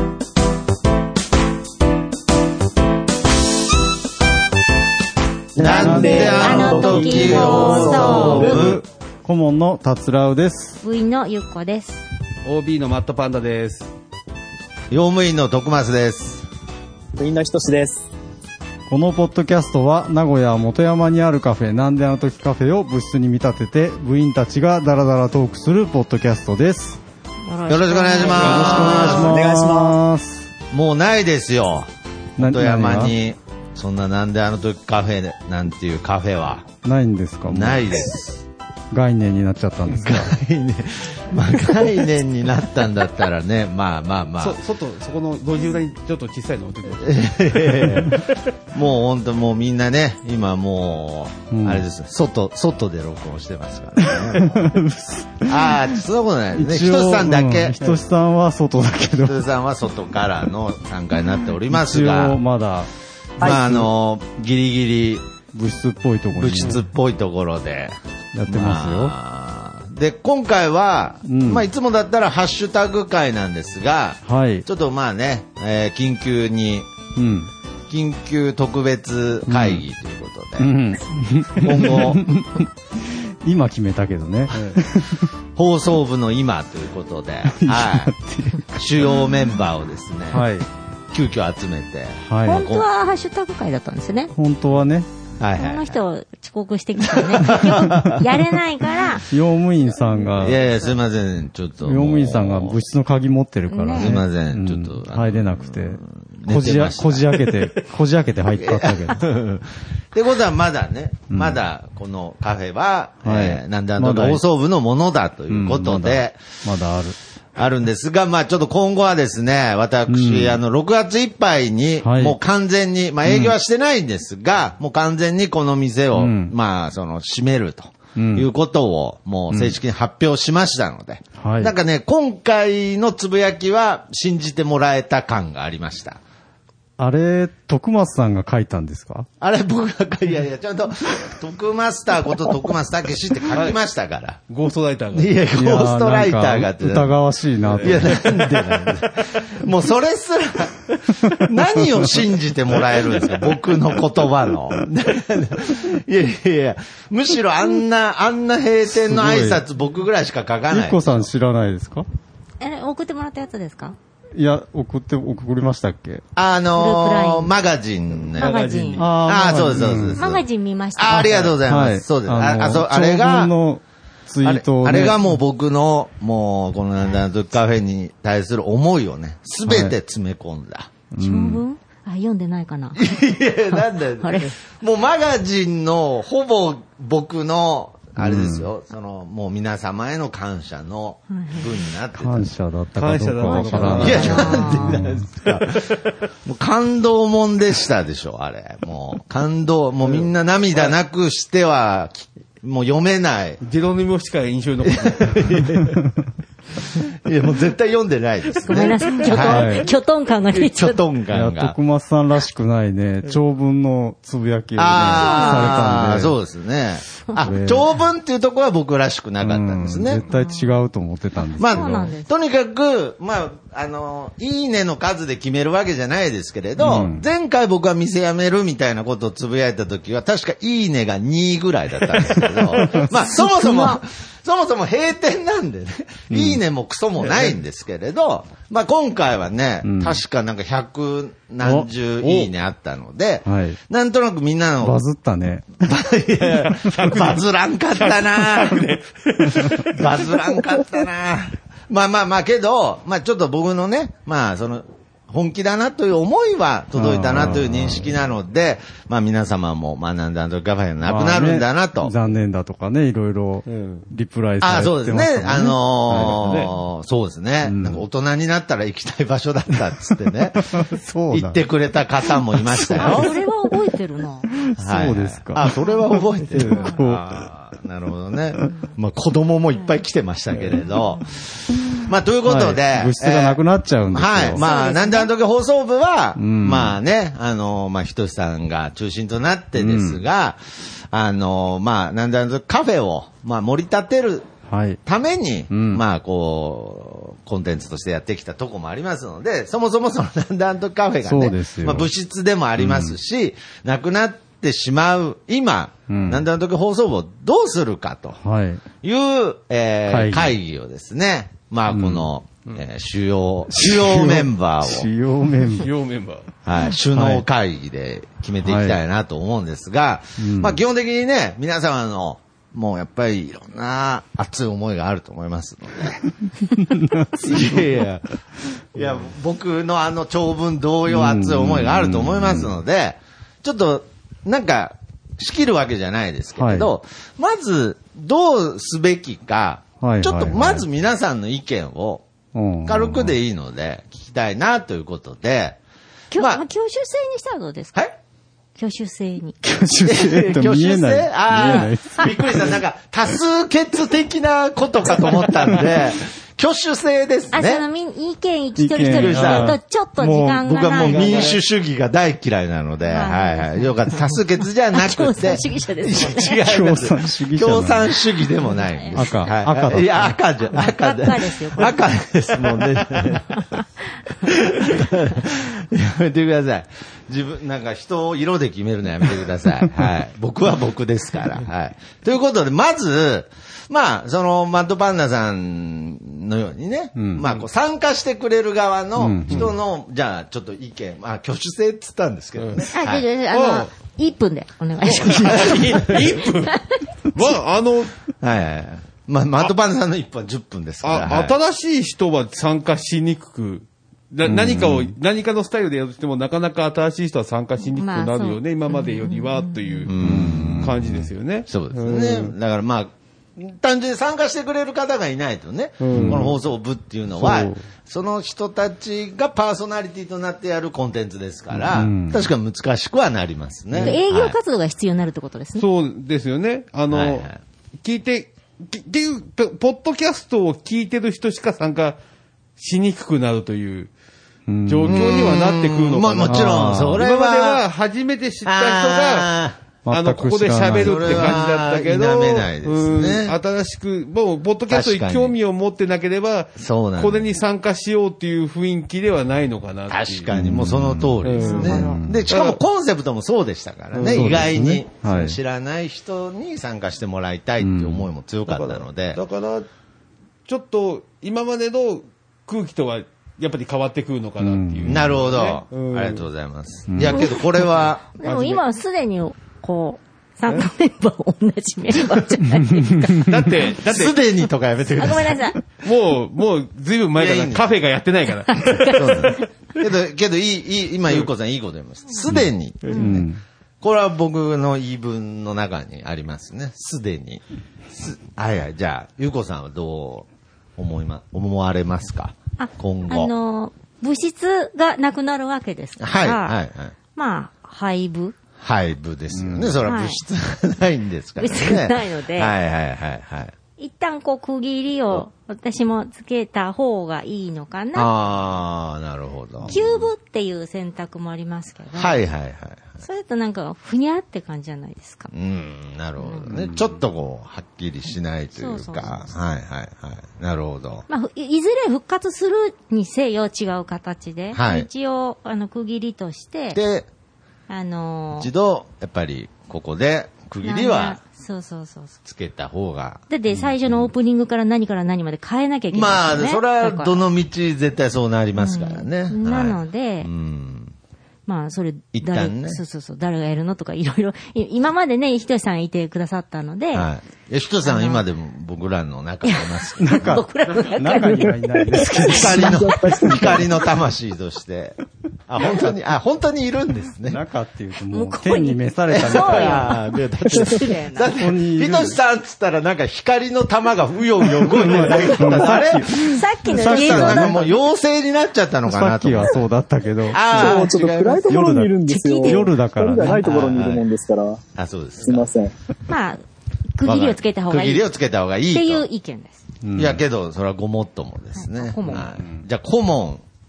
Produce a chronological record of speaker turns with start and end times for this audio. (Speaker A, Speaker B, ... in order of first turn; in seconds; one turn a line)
Speaker A: 5.5-8.5
Speaker B: 5.6-8.8
Speaker C: 5.6-8.8
Speaker D: 5.7-10.8
Speaker C: 10.8-12.1
Speaker E: 12.5-13.9
Speaker B: 14.9-16.4
Speaker A: 17.2-18.1
Speaker D: 18.9-27.0
Speaker C: 27.4-29.3
Speaker B: 27.7-29.3
Speaker A: 28.3-30.0
Speaker D: 28.3-30.5
Speaker B: 30.7-36.7
Speaker D: 32.4-33.2
Speaker D: 36.8-38.0
Speaker B: 37.5-38.4
Speaker D: 38.9-40.4
Speaker B: 40.0-44.6
Speaker E: 44.4-48.1
Speaker B: 47.0-54.7
Speaker D: 51.5-51.8
Speaker D: 54.0-55.8
Speaker B: 55.5-58.0
Speaker D: 56.5-59.5
Speaker B: 59.3-62.4
Speaker D: 61.7-62.9
Speaker B: 63.4-65.2
Speaker D: 63.4-63.9
Speaker D: 65.5-66.8
Speaker B: 66.3-67.9
Speaker D: 68.3-69.1
Speaker B: 68.5-76.9
Speaker D: 71.2-71.7
Speaker D: 74.2-74.7
Speaker D: 77.2-77.5
Speaker B: 77.9-80.7
Speaker D: 79.5-79.8
Speaker D: 80.6-85.3
Speaker B: 81.6-82.2
Speaker B: 85.5-88.1
Speaker D: 87.5-89.2
Speaker B: 88.8-90.5
Speaker D: 90.3-90.7
Speaker B: 91.1-92.8
Speaker D: 92.2-92.7
Speaker C: 92.4-94.3
Speaker D: 94.3-95.1
Speaker B: 95.4-96.0
Speaker C: 95.5-99.3
Speaker B: 97.1-98.3
Speaker D: 99.3-100.6
Speaker B: 100.4-102.8
Speaker D: 101.8-109.2
Speaker C: 103.7-104.2
Speaker B: 103.9-107.6
Speaker B: 108.6-116.4
Speaker D: 111.3-111.6
Speaker D: 113.2-114.4
Speaker D: 115.5-117.2
Speaker B: 117.6-136.2
Speaker D: 120.1-120.6
Speaker D: 122.0-122.4
Speaker D: 123.2-123.6
Speaker D: 126.1-126.5
Speaker D: 128.2-128.5
Speaker D: 129.5-129.8
Speaker D: 131.4-131.8
Speaker D: 137.0-139.3
Speaker B: 139.4-144.4
Speaker E: 143.5-143.8
Speaker E: 144.5-145.4
Speaker B: 145.1-147.2
Speaker D: 145.5-148.9
Speaker B: 147.8-161.0
Speaker D: 151.2-152.2
Speaker D: 158.8-159.6
Speaker D: 160.7-162.1
Speaker C: 162.6-164.0
Speaker D: 164.3-166.2
Speaker B: 166.4-168.5
Speaker C: 166.8-167.5
Speaker E: 168.4-169.1
Speaker C: 168.4-169.1
Speaker D: 169.0-170.2
Speaker B: 169.2-173.5
Speaker C: 170.2-171.5
Speaker E: 171.2-171.5
Speaker D: 171.6-175.3
Speaker B: 174.4-180.9
Speaker D: 179.7-180.0
Speaker D: 181.1-181.6
Speaker C: 181.2-183.0
Speaker B: 182.9-192.5
Speaker C: 184.2-184.6
Speaker D: 188.2-188.7
Speaker C: 191.3-191.8
Speaker D: 192.1-195.3
Speaker E: 193.0-194.8
Speaker B: 193.4-203.6
Speaker C: 194.0-195.0
Speaker E: 200.0-200.9
Speaker E: 203.6-205.6
Speaker B: 204.9-205.9
Speaker B: 207.2-209.8
Speaker C: 208.6-211.0
Speaker D: 209.4-209.9
Speaker B: 210.5-211.8
Speaker D: 211.3-216.3
Speaker B: 214.8-220.2
Speaker C: 215.0-216.0
Speaker D: 217.4-217.9
Speaker D: 219.4-222.1
Speaker C: 220.3-220.7
Speaker C: 221.6-222.3
Speaker B: 221.6-245.0
Speaker D: 226.8-227.3
Speaker D: 232.8-234.0
Speaker D: 236.3-236.6
Speaker E: 237.2-237.6
Speaker D: 239.8-240.2
Speaker D: 241.6-242.5
Speaker D: 243.4-243.8
Speaker D: 244.8-246.0
Speaker B: 245.8-249.0
Speaker E: 246.7-250.3
Speaker B: 249.8-262.1
Speaker D: 256.9-258.1
Speaker D: 261.0-266.7
Speaker E: 263.7-264.1
Speaker B: 264.6-270.8
Speaker E: 266.2-266.7
Speaker D: 267.6-268.1
Speaker D: 270.7-271.6
Speaker B: 271.3-273.3
Speaker D: 272.6-273.3
Speaker C: 272.9-274.5
Speaker D: 274.5-277.5
Speaker B: 274.7-294.5
Speaker C: 276.7-276.9
Speaker C: 278.7-278.9
Speaker E: 280.5-280.8
Speaker C: 280.9-281.4
Speaker D: 282.4-284.7
Speaker C: 284.6-285.3
Speaker D: 286.4-287.0
Speaker D: 289.8-290.2
Speaker D: 294.7-295.0
Speaker B: 295.1-308.4
Speaker D: 295.7-296.0
Speaker D: 301.2-302.1
Speaker D: 302.8-303.2
Speaker D: 306.1-306.4
Speaker D: 308.4-308.8
Speaker B: 309.0-315.1
Speaker D: 310.1-310.6
Speaker D: 311.9-312.3
Speaker D: 313.7-315.9
Speaker E: 315.8-316.5
Speaker B: 316.6-326.3
Speaker D: 317.1-317.4
Speaker D: 318.6-319.0
Speaker D: 320.4-320.8
Speaker B: 327.3-328.4
Speaker B: 328.9-342.2
Speaker D: 331.1-332.7
Speaker D: 336.6-336.9
Speaker D: 340.0-340.9
Speaker D: 342.5-343.4
Speaker B: 342.9-345.8
Speaker C: 346.3-347.9
Speaker B: 346.4-346.6
Speaker C: 348.8-349.6
Speaker D: 349.6-352.7
Speaker B: 350.1-357.9
Speaker C: 357.5-361.6
Speaker D: 358.8-360.6
Speaker B: 359.1-373.6
Speaker E: 360.9-361.6
Speaker C: 363.1-364.3
Speaker C: 364.9-366.6
Speaker D: 366.6-368.2
Speaker C: 368.6-369.5
Speaker D: 369.1-370.4
Speaker C: 370.7-372.8
Speaker C: 373.4-373.9
Speaker B: 374.4-393.2
Speaker D: 387.2-387.4
Speaker D: 389.2-389.7
Speaker E: 392.6-392.9
Speaker C: 392.9-396.1
Speaker E: 393.5-393.9
Speaker E: 395.0-396.8
Speaker B: 395.5-396.4
Speaker C: 396.7-397.0
Speaker E: 397.3-398.1
Speaker B: 398.4-401.6
Speaker E: 401.0-412.5
Speaker D: 404.4-405.1
Speaker C: 407.8-410.1
Speaker B: 410.1-411.0
Speaker D: 410.2-411.2
Speaker B: 411.7-424.6
Speaker E: 416.0-416.6
Speaker D: 416.1-416.5
Speaker E: 417.4-417.8
Speaker D: 421.7-422.5
Speaker C: 424.0-425.9
Speaker E: 425.8-427.5
Speaker B: 427.1-427.6
Speaker E: 428.0-432.2
Speaker E: 432.8-434.1
Speaker D: 434.7-435.4
Speaker E: 434.9-439.5
Speaker B: 435.1-437.8
Speaker D: 436.4-437.2
Speaker B: 438.6-439.8
Speaker D: 440.1-441.6
Speaker E: 440.1-450.5
Speaker B: 441.0-443.6
Speaker B: 444.9-445.6
Speaker B: 446.8-447.5
Speaker B: 450.1-459.4
Speaker D: 450.5-452.5
Speaker E: 451.4-452.8
Speaker C: 451.6-452.0
Speaker E: 454.1-454.7
Speaker D: 454.3-455.6
Speaker D: 457.8-458.3
Speaker E: 458.7-459.9
Speaker E: 460.7-466.5
Speaker D: 464.6-465.4
Speaker B: 465.1-468.2
Speaker D: 467.1-467.4
Speaker C: 467.3-467.8
Speaker C: 468.4-473.5
Speaker E: 468.4-468.8
Speaker D: 472.9-473.5
Speaker E: 473.4-474.4
Speaker B: 474.0-475.7
Speaker C: 475.2-475.8
Speaker E: 476.0-479.5
Speaker B: 477.4-477.9
Speaker C: 478.7-479.7
Speaker B: 479.1-483.5
Speaker D: 482.5-483.6
Speaker C: 483.1-483.4
Speaker B: 484.0-487.6
Speaker B: 488.1-490.4
Speaker B: 491.0-493.5
Speaker C: 492.8-496.8
Speaker B: 496.2-497.1
Speaker C: 497.3-498.6
Speaker B: 498.8-503.8
Speaker D: 499.5-500.0
Speaker C: 500.1-500.4
Speaker C: 501.6-502.7
Speaker C: 504.0-508.3
Speaker B: 508.1-510.2
Speaker C: 509.9-512.4
Speaker B: 512.1-513.2
Speaker C: 513.2-515.5
Speaker B: 515.5-521.3
Speaker C: 516.4-516.7
Speaker D: 516.7-517.0
Speaker C: 518.7-519.5
Speaker C: 521.3-527.0
Speaker B: 524.7-525.1
Speaker B: 526.9-527.3
Speaker C: 527.9-528.7
Speaker B: 528.6-531.4
Speaker C: 530.8-532.4
Speaker B: 532.5-533.5
Speaker C: 533.5-537.3
Speaker B: 536.1-541.1
Speaker C: 538.8-540.5
Speaker C: 541.6-547.3
Speaker B: 542.3-543.0
Speaker B: 547.1-550.6
Speaker C: 548.0-548.4
Speaker C: 549.6-553.0
Speaker D: 550.2-553.9
Speaker B: 552.5-555.2
Speaker A: 553.0-553.8
Speaker B: 555.7-557.6
Speaker D: 557.5-560.2
Speaker C: 558.3-561.5
Speaker B: 559.3-569.8
Speaker D: 561.4-562.4
Speaker D: 564.9-567.9
Speaker C: 565.7-567.9
Speaker D: 569.0-573.6
Speaker B: 570.5-571.7
Speaker A: 570.7-574.8
Speaker C: 572.3-572.9
Speaker B: 573.4-574.2
Speaker B: 575.0-575.7
Speaker A: 575.4-575.9
Speaker C: 576.3-576.6
Speaker C: 577.1-578.3
Speaker B: 577.2-579.2
Speaker C: 578.9-579.8
Speaker D: 580.0-580.4
Speaker B: 580.1-583.6
Speaker C: 581.8-582.5
Speaker D: 582.6-582.8